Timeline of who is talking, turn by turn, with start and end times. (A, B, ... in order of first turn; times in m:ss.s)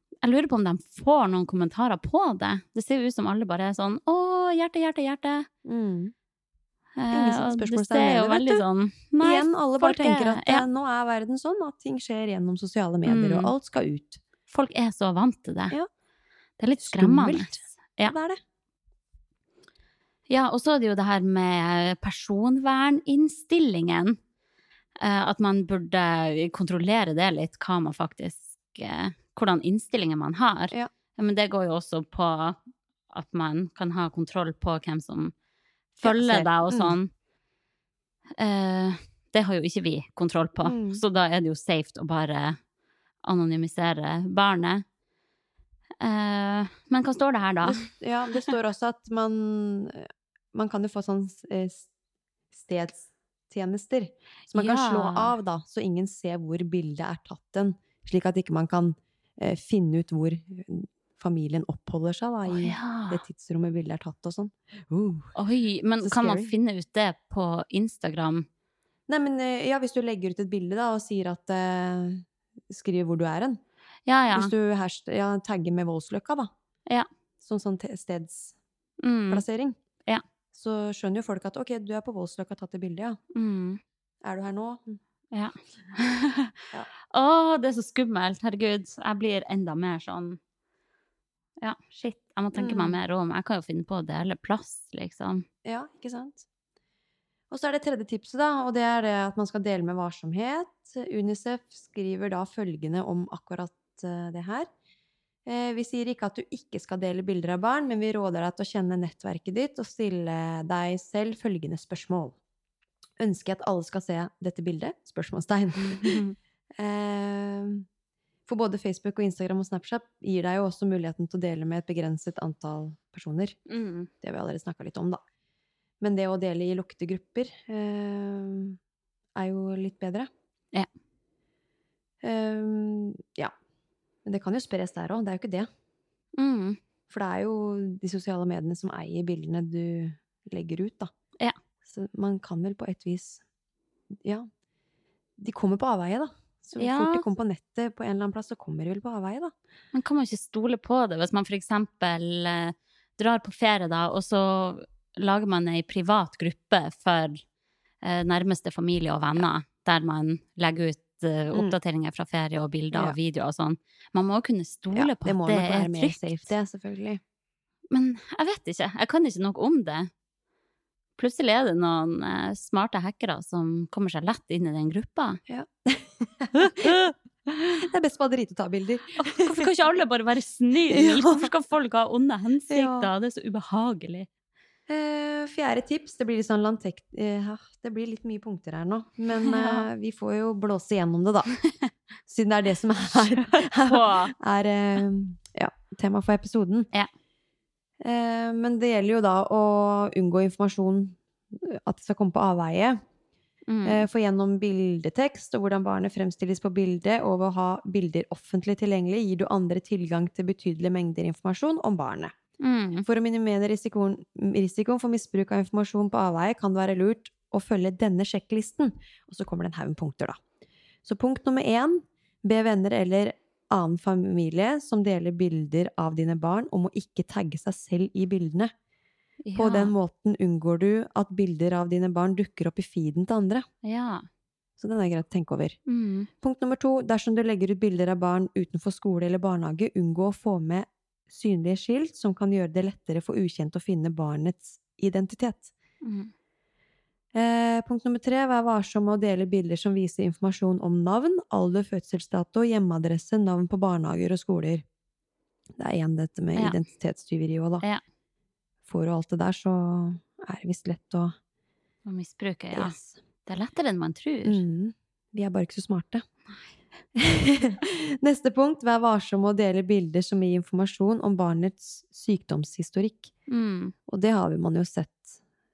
0:00.2-0:05.5 A
0:05.6-0:06.1 B
0:07.0-0:10.7 A
0:07.1-0:08.6 B
0:09.2-0:14.2 B
0:13.0-0:13.5 A
0:14.5-0:15.8 A
0:16.6-0:18.2 A
0:16.8-0:18.4 B
0:20.3-0:24.2 A
0:25.0-0:32.6 A
0:33.1-0:35.3 A
0:36.0-0:37.1 A
0:36.0-0:37.0 B
0:38.4-0:42.6 A
0:40.6-0:41.0 B
0:43.2-0:44.8 A
0:46.0-0:47.9 A
0:47.6-0:51.9 B
0:52.5-1:05.3 B
0:54.5-0:55.3 A
1:02.5-1:03.2 A
1:05.4-1:08.5 A
1:06.0-1:06.5 B
1:09.1-1:13.6 B
1:14.1-1:14.5 A
1:14.3-1:16.5 B
1:17.4-1:18.6 B
1:19.0-1:19.4 A
1:19.3-1:19.8 B
1:20.5-1:23.2 B
1:23.3-1:23.8 A
1:24.2-1:25.0 B
1:25.3-1:26.6 A
1:27.1-1:30.4 A
1:31.6-1:35.4 A
1:32.6-1:33.0 B
1:35.6-1:36.4 B
1:37.5-1:44.7 B
1:45.5-1:52.4 B
1:53.2-1:56.2 B
1:55.8-1:56.4 A
1:56.8-1:57.9 B
1:58.5-2:03.6 B
2:03.7-2:04.1 A
2:04.2-2:05.2 B
2:06.0-2:08.8 B
2:09.4-2:10.3 B
2:12.2-2:13.5 B
2:14.2-2:15.7 B
2:16.4-2:16.8 A
2:17.1-2:21.1 B
2:21.8-2:23.4 B
2:24.2-2:24.5 B
2:25.4-2:29.5 B
2:26.8-2:27.3 A
2:29.9-2:37.4 A
2:38.0-2:46.5 A
2:42.9-2:43.2 B
2:44.9-2:47.2 B
2:47.9-2:50.1 A
2:51.2-2:55.4 A
2:55.5-2:59.7 B
2:56.6-2:57.1 A
2:59.2-3:04.3 A
3:00.9-3:01.5 B
3:02.7-3:03.1 B
3:04.9-3:11.5 B
3:09.4-3:09.9 A
3:12.3-3:16.9 B
3:13.3-3:14.3 A
3:18.0-3:23.0 B
3:23.7-3:24.1 A
3:23.8-3:32.4 B
3:32.6-3:33.1 A
3:33.0-3:40.4 B
3:41.0-3:48.7 B
3:49.4-3:49.9 A
3:49.6-3:53.7 B
3:53.8-3:54.2 A
3:54.8-3:55.8 B
3:55.9-3:56.3 A
3:56.4-4:05.7 B
4:06.0-4:06.3 A
4:07.3-4:14.8 B
4:15.8-4:17.8 B
4:16.6-4:16.8 A
4:18.9-4:21.3 B
4:22.1-4:24.6 A
4:22.7-4:23.2 B
4:24.4-4:26.2 B
4:27.2-4:33.3 B
4:33.5-4:33.9 A
4:34.1-4:35.4 B